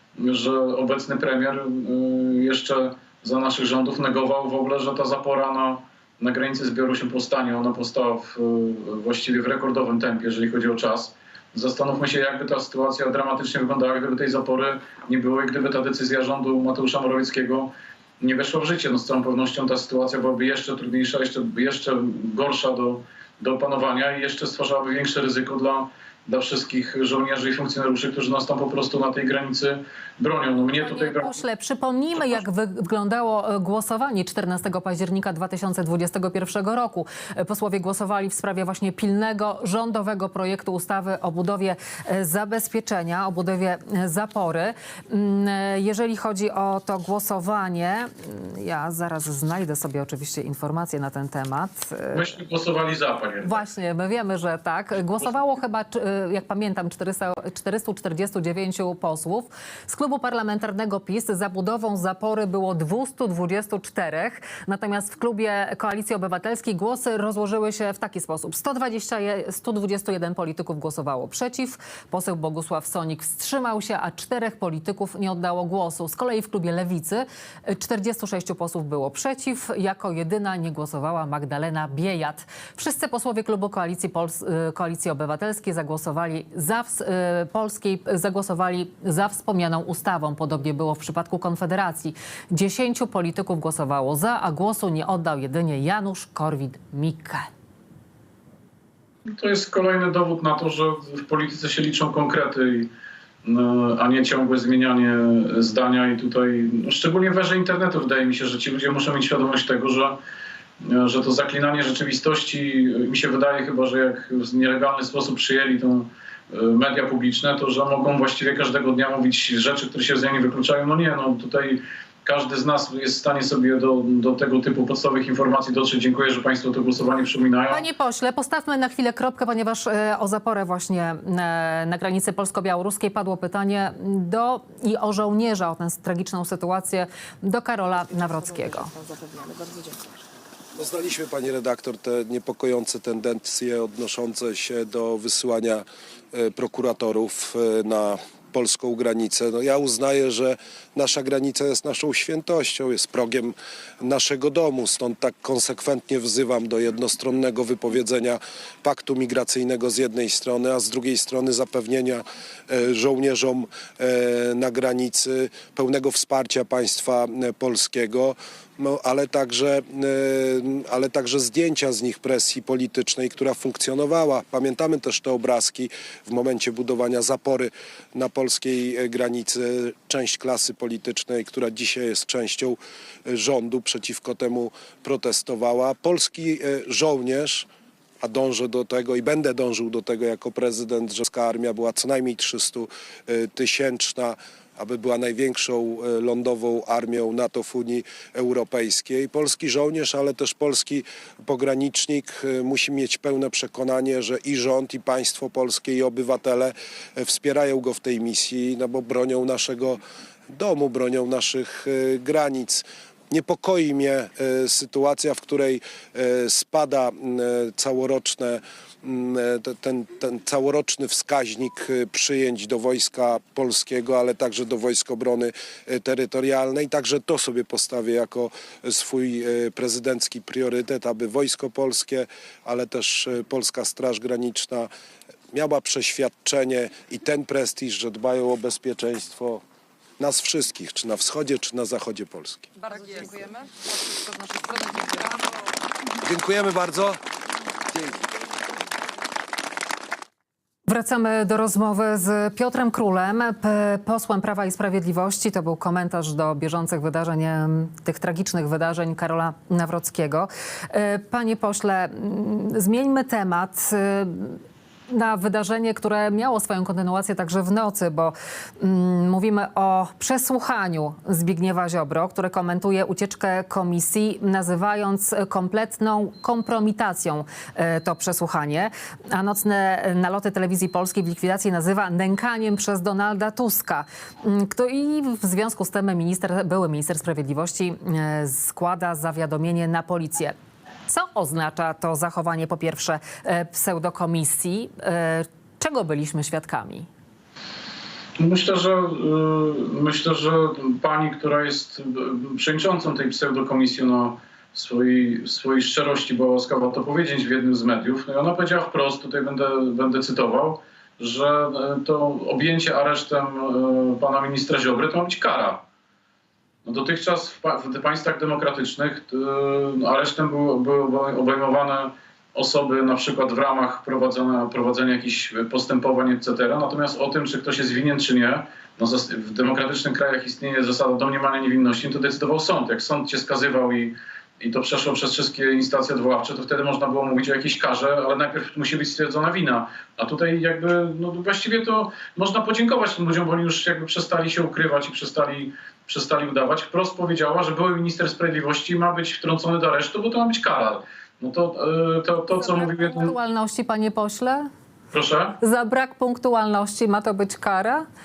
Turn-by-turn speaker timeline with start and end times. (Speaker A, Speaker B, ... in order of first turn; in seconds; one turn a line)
Speaker A: 0.1-31.4
Speaker B: 30.8-52.3
Speaker A: 32.2-32.4
Speaker A: 52.1-53.6
Speaker B: 53.4-97.5
Speaker A: 99.3-102.9
Speaker A: 103.4-110.2
Speaker A: 110.8-127.8
Speaker B: 127.7-138.9
Speaker C: 138.5-140.2
Speaker D: 140.8-187.7
Speaker D: 188.2-234.9
Speaker D: 235.5-239.6
Speaker D: 240.2-242.7
Speaker C: 242.8-245.4
Speaker D: 246.2-247.2
Speaker B: 250.9-290.5
Speaker B: 291.1-297.1
Speaker A: 298.4-315.8
Speaker A: 316.8-353.3
Speaker B: 352.5-354.7
Speaker A: 355.1-355.6
Speaker B: 355.6-358.0